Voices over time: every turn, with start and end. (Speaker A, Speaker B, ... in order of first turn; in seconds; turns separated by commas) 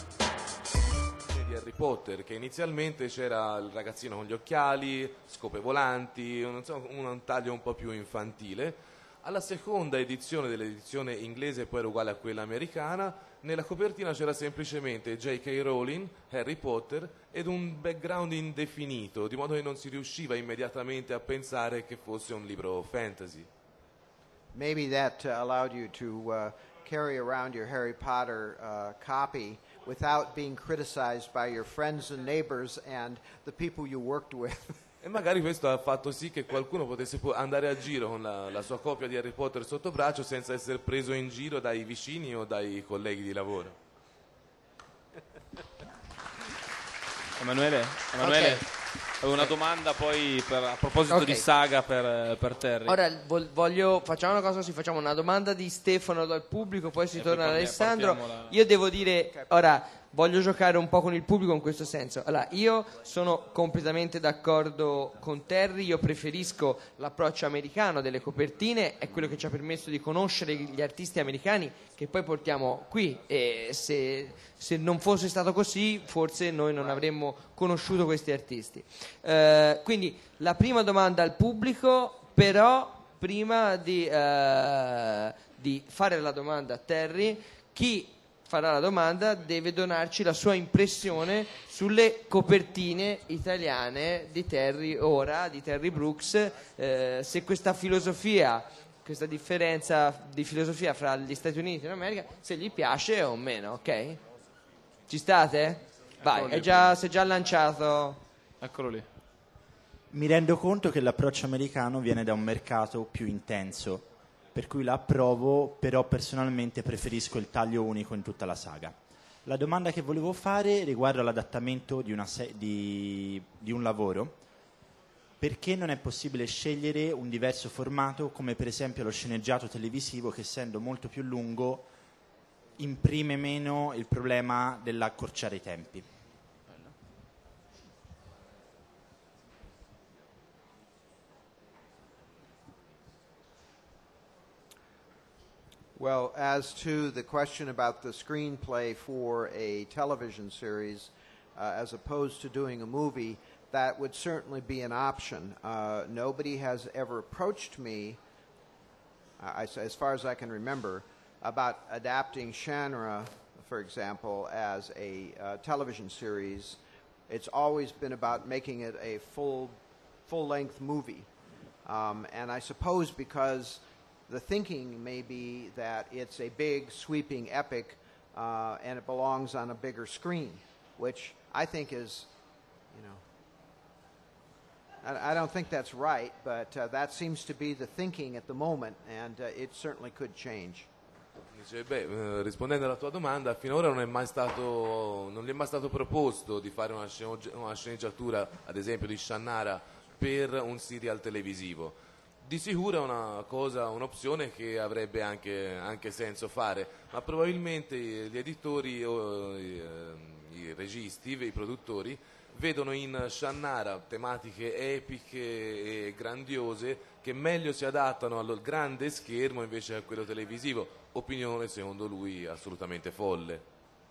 Speaker A: 1.3-23.5, Speaker B: 24.5-34.8, Speaker A: 35.0-43.8, Speaker C: 47.4-53.0, Speaker D: 48.2-48.6, Speaker D: 51.0-51.5, Speaker D: 52.8-104.2, Speaker C: 57.1-58.5, Speaker D: 105.1-108.2, Speaker C: 106.2-106.9, Speaker C: 108.6-109.0, Speaker E: 110.1-118.9, Speaker E: 119.4-124.3, Speaker E: 125.4-131.9, Speaker E: 132.8-136.0, Speaker B: 145.9-158.2, Speaker B: 159.4-169.8, Speaker B: 170.3-171.3, Speaker B: 171.8-182.3, Speaker B: 182.9-183.2, Speaker B: 185.0-190.9, Speaker A: 191.5-223.6